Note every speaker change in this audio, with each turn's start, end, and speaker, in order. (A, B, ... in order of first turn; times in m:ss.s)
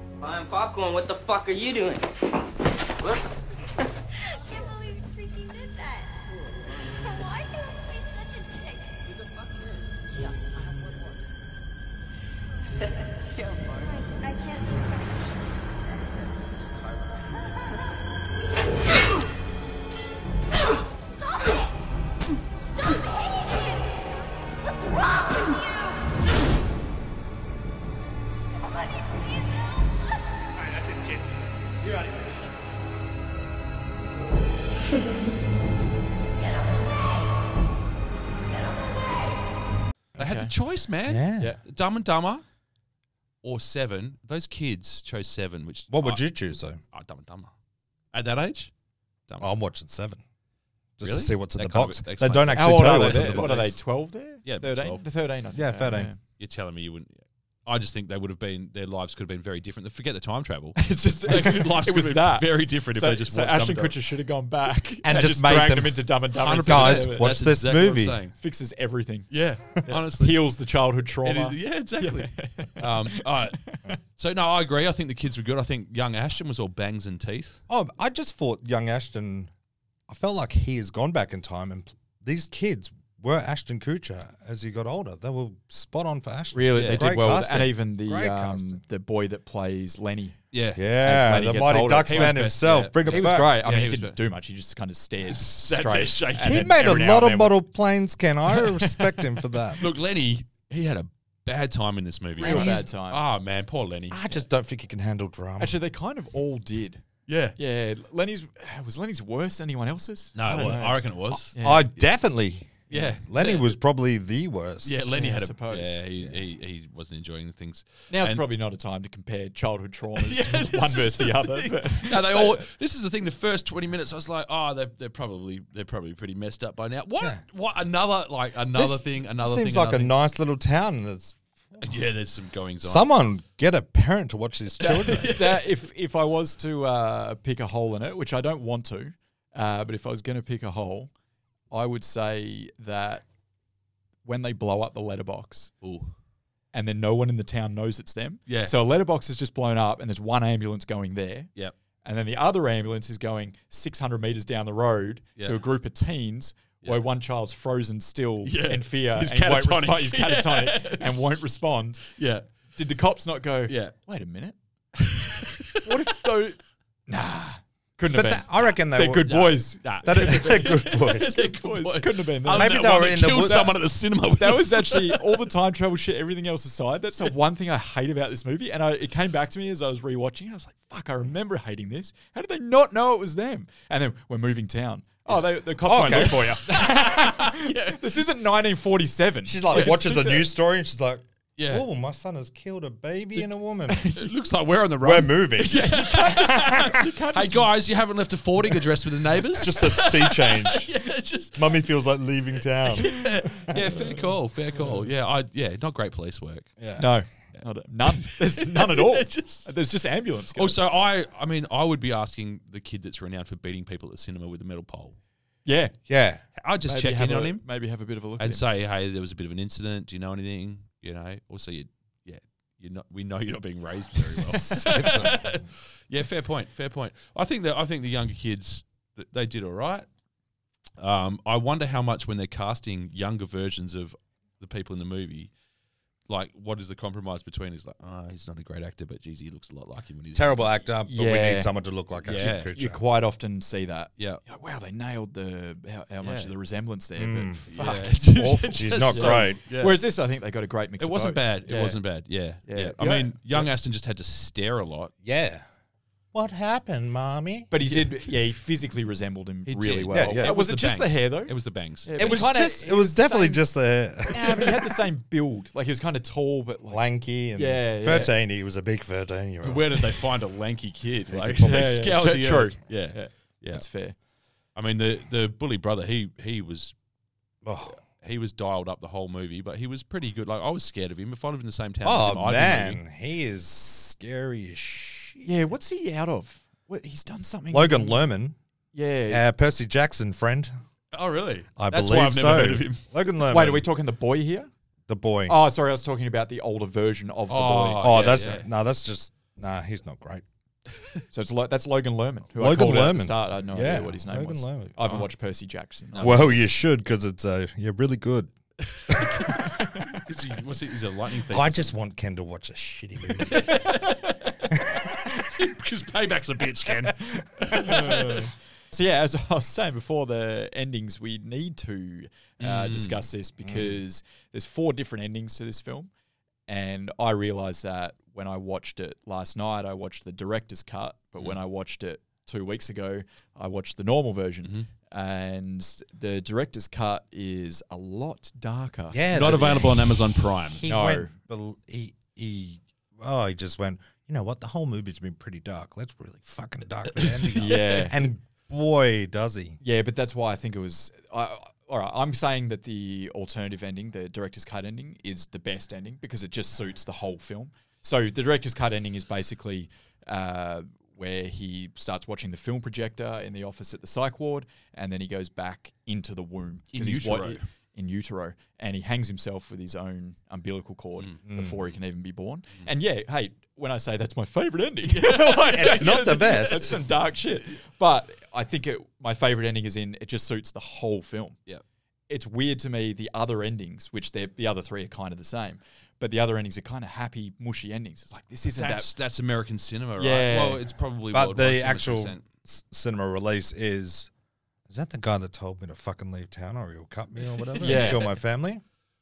0:00.2-0:02.1 A
0:03.0-0:03.4 A
0:04.2-0:09.1 B
0:09.2-0:09.6 A
0:13.7-0:16.1 B
0:20.6-0:21.7 B
0:22.6-0:26.2 B
0:28.6-0:30.5 B
0:40.2-0:42.4 C
0:40.2-0:40.5 D
0:41.1-0:41.5 E
0:43.4-0:46.2 C
0:45.9-0:46.8 E
0:46.9-0:47.5 C
0:48.1-0:48.7 C
0:49.4-0:50.2 E
0:51.0-0:53.7 E
0:51.0-0:53.8 C
0:52.5-0:56.2 D
0:54.4-0:55.0 C
0:55.5-0:56.1 E
0:56.4-1:04.0 C
1:00.8-1:07.3 D
1:05.0-1:08.2 E
1:06.4-1:08.3 C
1:08.4-1:13.8 D
1:09.3-1:10.5 C
1:11.2-1:17.6 C
1:17.7-1:19.5 E
1:20.1-1:28.8 E
1:26.5-1:30.4 D
1:26.7-1:27.1 C
1:30.5-1:30.8 C
1:30.7-1:33.6 E
1:31.0-1:37.6 D
1:32.0-1:34.2 C
1:35.3-1:36.8 C
1:36.4-1:39.8 E
1:39.8-1:44.3 C
1:42.4-1:42.9 E
1:42.4-1:43.2 D
1:44.1-1:45.8 E
1:45.6-1:47.0 D
1:47.3-1:47.6 C
1:47.6-1:51.9 D
1:50.3-1:51.5 C
1:50.5-1:55.1 E
1:52.9-1:53.7 C
1:54.8-1:58.4 C
1:55.1-1:56.0 D
1:58.1-2:02.6 D
2:00.2-2:10.1 C
2:08.7-2:11.9 E
2:11.8-2:13.1 C
2:12.8-2:15.4 E
2:14.8-2:21.1 D
2:14.8-2:15.7 C
2:21.7-2:23.2 D
2:24.2-2:25.7 D
2:25.8-2:26.1 C
2:26.7-2:31.5 D
2:28.5-2:28.7 C
2:32.0-2:42.1 D
2:38.4-2:41.2 C
2:42.1-2:42.5 C
2:42.7-2:44.5 D
2:43.7-2:43.9 C
2:45.0-2:46.2 C
2:45.8-2:52.8 D
2:48.1-2:51.4 E
2:49.3-2:55.4 C
2:52.5-2:53.8 E
2:54.4-3:10.5 D
3:05.8-3:06.8 E
3:06.0-3:08.2 C
3:09.4-3:14.1 E
3:09.7-3:10.2 C
3:11.6-3:11.8 C
3:13.9-3:14.3 D
3:14.2-3:21.8 C
3:15.0-3:16.9 E
3:15.7-3:17.7 D
3:19.5-3:20.9 E
3:21.5-3:23.8 E
3:22.9-3:26.8 C
3:26.8-3:27.1 E
3:27.0-3:30.8 D
3:27.5-3:29.7 C
3:30.5-3:35.2 C
3:35.6-3:36.0 D
3:36.1-3:36.4 E
3:36.6-3:37.6 C
3:36.8-3:38.6 D
3:38.4-3:50.0 C
3:44.5-3:45.6 E
3:51.0-3:55.5 C
3:56.3-4:00.7 C
4:00.3-4:03.0 E
4:01.1-4:01.7 D
4:02.2-4:02.7 C
4:02.4-4:08.5 D
4:06.2-4:06.5 C
4:07.2-4:09.6 E
4:07.7-4:10.0 C
4:09.1-4:12.0 D
4:11.0-4:15.1 C
4:12.7-4:13.7 D
4:15.2-4:15.6 E
4:16.3-4:17.7 E
4:17.7-4:21.5 D
4:19.7-4:22.5 C
4:20.1-4:20.5 E
4:22.0-4:23.6 D
4:22.2-4:24.9 E
4:24.3-4:28.3 D
4:26.9-4:30.2 E
4:29.6-4:33.8 C
4:31.3-4:31.8 E
4:31.5-4:34.2 D
4:34.7-4:36.9 C
4:37.6-4:38.0 E
4:38.2-4:43.0 C
4:42.0-4:45.5 E
4:45.4-4:48.2 D
4:47.7-4:48.6 E
4:48.9-4:49.4 D
4:49.3-4:50.7 E
4:51.1-4:53.0 C
4:51.8-4:53.9 E
4:53.5-4:54.7 D
4:55.1-4:55.6 E
4:55.5-4:58.6 D
4:57.5-4:58.7 C
4:58.0-5:00.4 E
5:01.3-5:06.6 D
5:02.6-5:05.1 E
5:06.1-5:06.5 C
5:06.2-5:08.5 E
5:09.1-5:11.9 C
5:09.1-5:09.4 E
5:09.7-5:10.0 D
5:11.5-5:13.8 E
5:13.4-5:18.5 C
5:13.9-5:14.3 D
5:17.7-5:26.1 D
5:22.6-5:23.3 C
5:23.6-5:24.0 E
5:26.7-5:39.2 D
5:39.1-5:49.8 E
5:39.3-5:40.9 C
5:40.9-5:41.3 D
5:47.6-5:48.2 D
5:49.8-6:21.6 D
6:06.9-6:07.6 C
6:11.4-6:11.8 E
6:15.1-6:17.1 C
6:15.6-6:17.0 E
6:22.3-6:29.1 D
6:28.7-6:32.4 C
6:30.2-6:30.8 D
6:31.3-6:34.3 E
6:34.9-6:38.8 E
6:37.8-6:38.2 C
6:37.8-6:38.3 D